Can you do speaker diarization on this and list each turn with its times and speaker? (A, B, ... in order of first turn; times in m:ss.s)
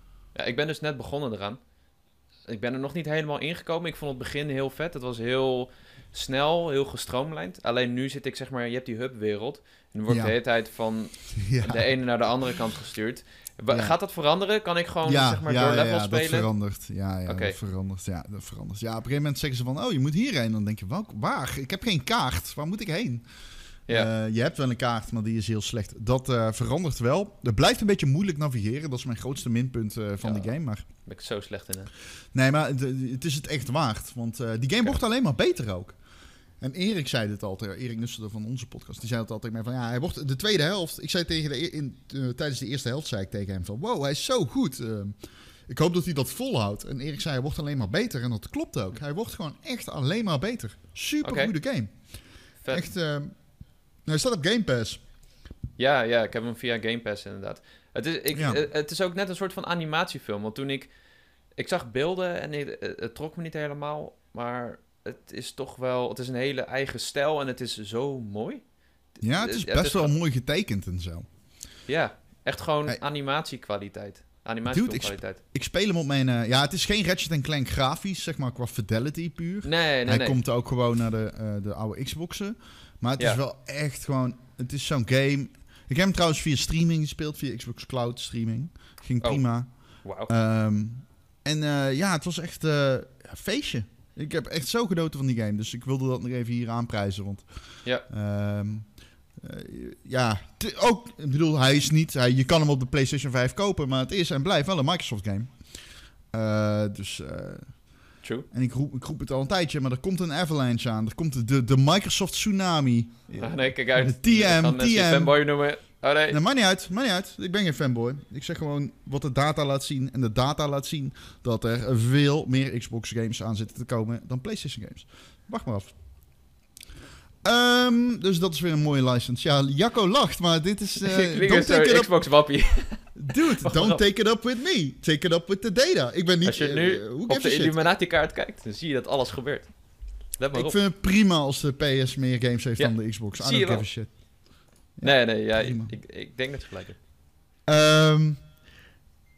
0:00.4-0:01.6 A
0:02.5-0:16.5 A
0:10.1-0:10.4 B
0:11.3-0:11.9 B
0:13.7-0:14.0 B
0:15.0-0:23.2 B
0:17.3-0:17.6 A
0:23.9-0:30.8 B
0:30.2-0:30.5 A
0:31.1-0:31.9 A
0:32.3-0:36.0 B
0:36.6-0:52.1 B
0:51.2-0:51.5 A
0:52.6-0:52.9 A
0:52.7-0:53.4 B
0:54.0-0:55.0 B
0:55.8-1:00.9 A
0:58.3-0:58.6 B
1:01.6-1:10.1 A
1:09.2-1:11.3 B
1:11.9-1:15.4 A
1:14.7-1:45.6 B
1:19.6-1:20.4 A
1:30.0-1:30.3 A
1:46.3-1:48.0 B
1:48.5-1:55.4 B
1:53.4-1:56.4 A
1:56.3-2:06.0 B
2:07.4-2:12.2 B
2:11.0-2:14.0 A
2:13.2-2:17.8 B
2:16.4-2:20.8 A
2:20.5-2:24.2 B
2:22.8-2:24.1 A
2:25.0-2:25.9 B
2:25.0-2:27.0 A
2:27.7-2:28.4 B